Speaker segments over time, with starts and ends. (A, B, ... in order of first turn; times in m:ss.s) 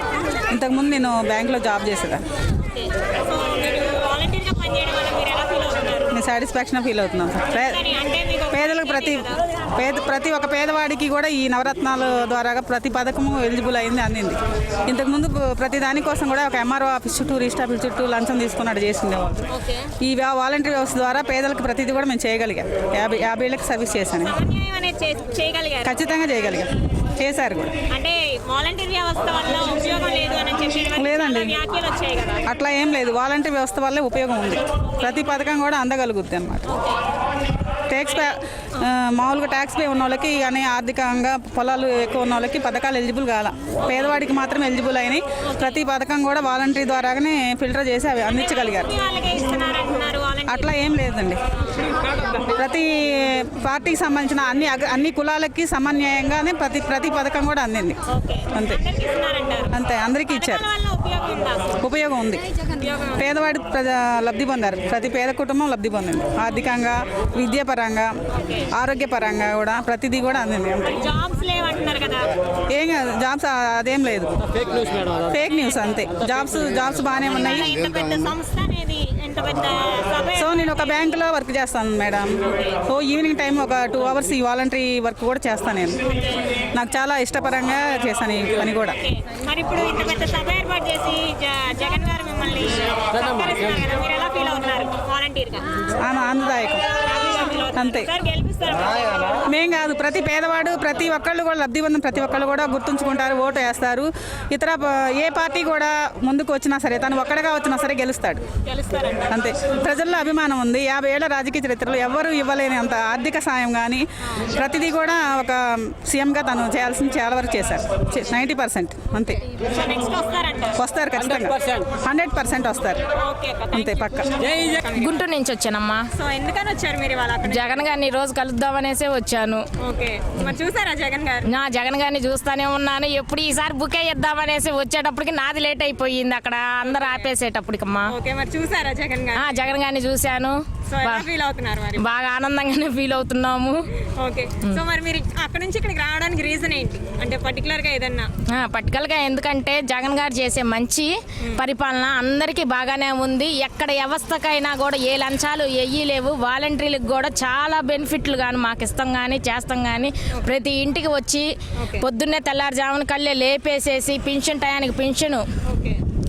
0:00.5-0:02.2 A
0:02.6-0:06.2 B
0:06.1-0:07.8 A
0:07.5-0:09.4 B
0:08.5-0:19.4 A
0:19.5-0:19.9 B
0:20.0-0:24.3 A
0:24.2-0:26.0 B
0:25.8-0:27.7 A
0:27.9-0:32.4 B
0:31.0-0:31.5 A
0:32.5-0:36.6 A
0:34.9-0:35.2 B
0:36.7-0:37.0 B
0:37.9-0:48.9 A
0:38.0-0:38.8 B
0:45.5-0:45.8 B
0:48.2-0:50.7 B
0:50.5-0:51.4 A
0:52.4-0:58.0 A
0:58.1-1:01.8 B
0:59.7-1:00.6 A
1:01.8-1:02.4 A
1:02.7-1:03.2 B
1:03.2-1:08.1 A
1:08.4-1:08.7 B
1:08.7-1:11.0 A
1:10.8-1:12.3 B
1:12.7-1:17.8 A
1:15.5-1:15.8 B
1:17.2-1:21.2 B
1:20.4-1:22.3 A
1:22.8-1:26.0 A
1:26.0-1:26.4 B
1:26.7-1:28.9 A
1:29.0-1:35.6 B
1:36.0-1:36.8 A
1:36.9-1:39.4 B
1:37.8-1:38.1 A
1:39.4-1:48.4 A
1:48.6-1:49.3 B
1:49.3-1:59.4 A
1:59.6-2:00.8 B
2:00.8-2:03.0 A
2:03.2-2:05.2 B
2:03.7-2:04.3 A
2:05.0-2:06.0 C
2:06.1-2:07.8 B
2:07.4-2:09.6 C
2:09.8-2:11.5 B
2:11.5-2:18.1 C
2:16.8-2:17.3 B
2:18.1-2:19.6 B
2:19.4-2:21.2 C
2:20.9-2:22.0 B
2:22.0-2:23.8 C
2:24.2-2:28.3 B
2:28.5-2:45.4 C
2:41.8-2:42.0 B
2:45.7-2:46.0 B